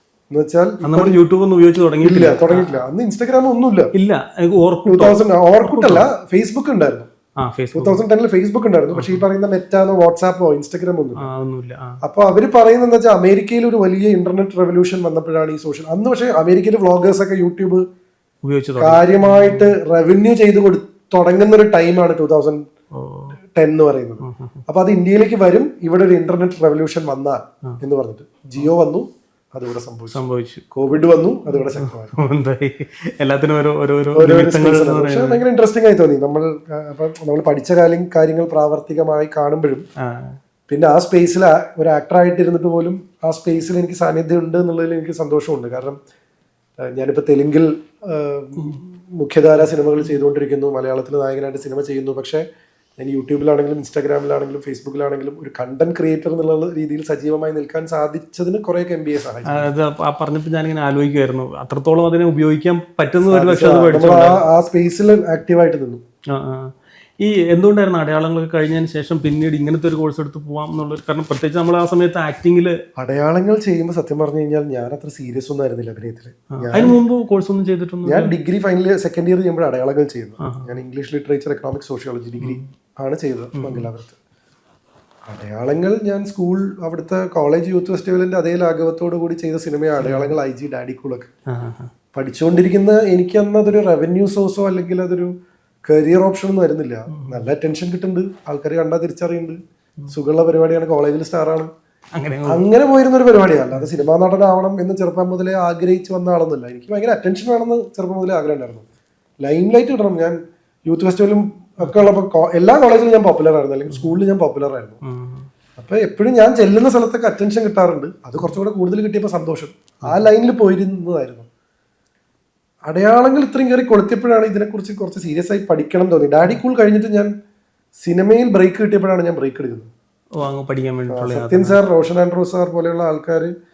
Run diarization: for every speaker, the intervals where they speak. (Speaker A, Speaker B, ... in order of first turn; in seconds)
Speaker A: 0.3-1.1, 2.0-3.9, 4.8-7.1, 7.7-11.3, 12.0-17.8, 18.8-22.6, 23.5-30.2, 30.7-32.1, 34.1-39.8, 40.7-46.0, 46.8-52.4, 53.0-59.7, 63.3-66.0, 73.0-77.0, 78.0-84.2, 85.2-91.3, 92.1-95.3, 95.8-99.6, 100.1-101.7, 102.5-108.8, 109.4-115.0, 115.8-121.5, 122.8-127.3, 128.0-129.9, 131.1-133.5
Speaker B: 0.8-2.8, 3.9-6.1, 7.4-8.0, 8.9-9.2, 11.2-12.0, 18.4-19.8, 22.9-23.4, 24.2-24.6, 30.1-30.6, 31.5-35.4, 40.0-40.4, 48.6-48.8, 59.5-64.4, 66.3-72.8, 76.5-78.3, 80.4-80.7, 82.4-82.7, 83.5-83.9, 90.0-90.3, 91.5-91.9, 97.1-97.5, 102.1-102.6, 115.0-115.5, 130.4-131.8